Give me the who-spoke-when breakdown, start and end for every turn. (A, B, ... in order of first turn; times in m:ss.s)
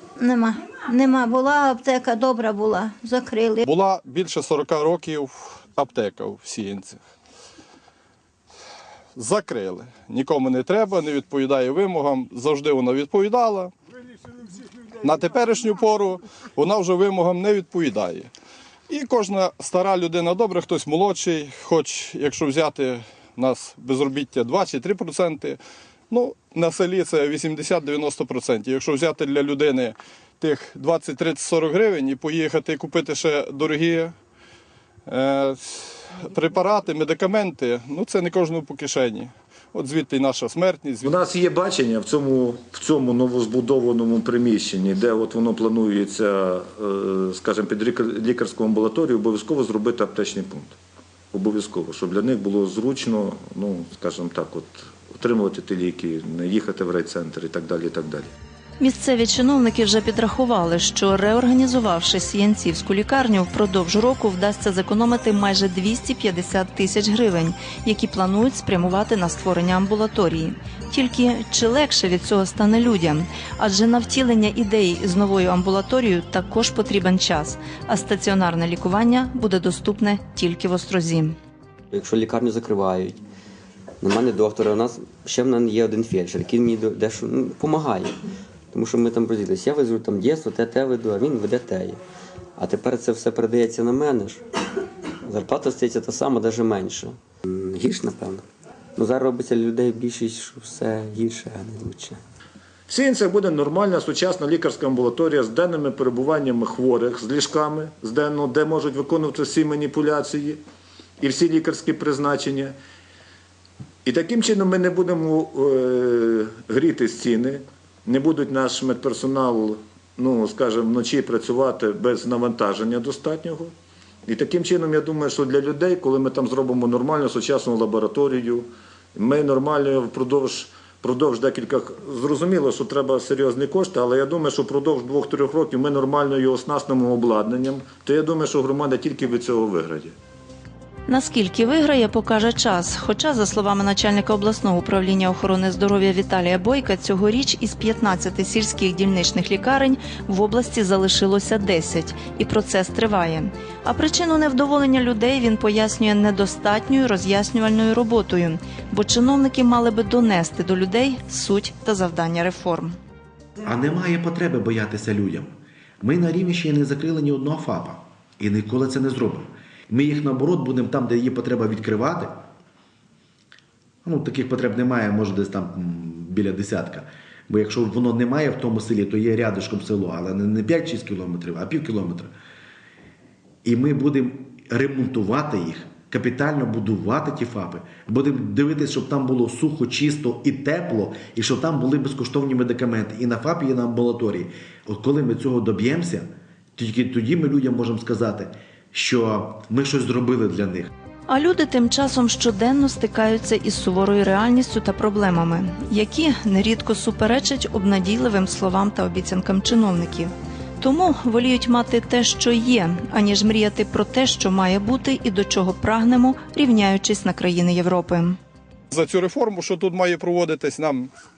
0:00.2-0:03.6 A
0:03.6-0:07.0 B
0:09.1-0:13.7 B
0:15.0-0:18.3 B
0:18.9-0:25.6 B
0:26.1-0:34.1 B
0:35.1-0:41.1 B
0:41.0-0:50.8 C
0:51.3-0:58.3 C
0:58.8-1:21.4 D
1:21.9-1:23.2 E
1:24.0-1:28.2 E
1:28.7-1:32.0 E
1:32.6-1:34.4 E
1:35.2-1:38.4 E
1:39.0-1:42.2 E
1:42.9-1:50.6 C
1:51.2-1:52.7 C
1:54.0-2:03.7 C
2:04.2-2:20.1 C
2:21.1-2:43.0 D
2:43.6-2:52.4 F
2:54.0-3:02.3 F
3:03.6-3:20.9 F
3:21.3-3:38.4 D
3:38.9-3:41.1 B